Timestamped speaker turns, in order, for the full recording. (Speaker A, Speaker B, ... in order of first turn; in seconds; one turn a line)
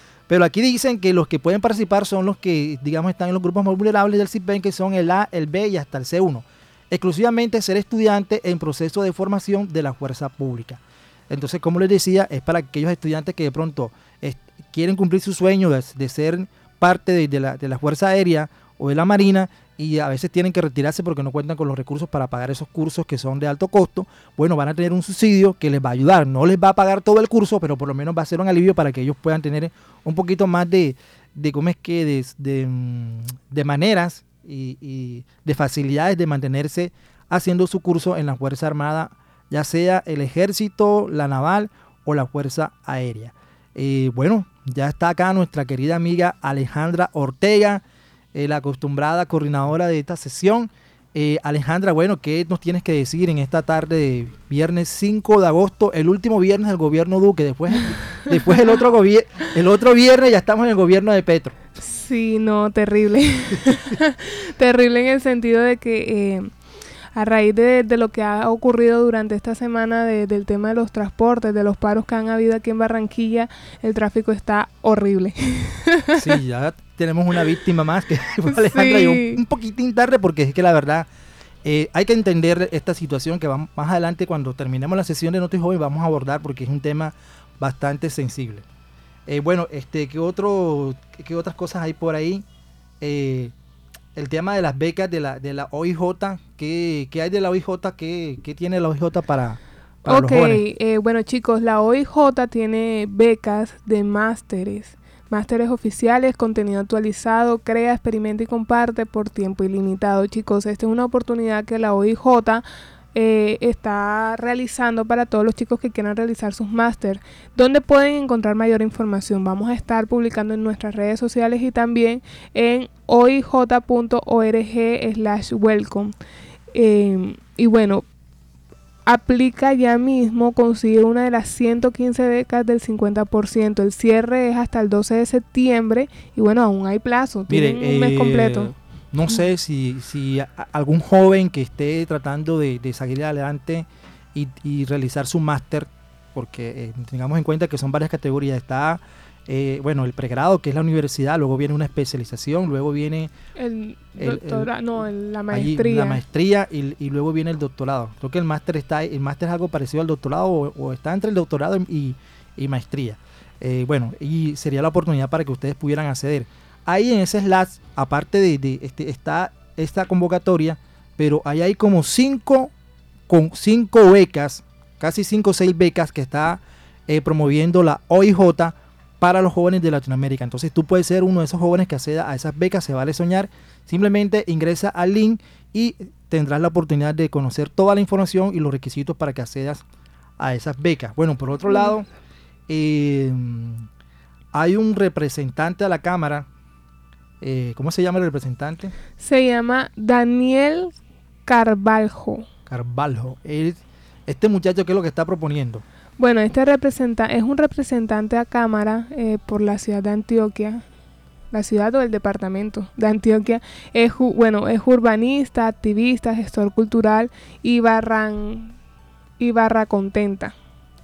Speaker A: 0.3-47.8
Speaker A: 48.3-61.6
Speaker B: 61.8-66.5
Speaker B: 67.2-76.3
Speaker A: 76.2-81.1
Speaker B: 78.5-79.4
Speaker A: 81.6-88.7
Speaker A: 89.3-92.5
Speaker A: 93.0-93.5
Speaker A: 94.2-100.6
Speaker B: 100.1-126.2
Speaker B: 126.7-128.1
Speaker B: 129.1-138.7
Speaker A: 137.5-153.3
Speaker B: 153.6-156.2
Speaker A: 154.2-154.7
Speaker A: 155.5-172.7
Speaker A: 173.3-189.8
Speaker A: 190.4-192.1
Speaker A: 192.7-193.9
Speaker A: 194.5-196.5
Speaker A: 197.4-198.9
Speaker B: 199.2-200.9
Speaker B: 201.5-202.5
Speaker A: 202.7-205.8
Speaker B: 206.2-210.8
Speaker B: 211.5-218.8
Speaker B: 219.4-220.6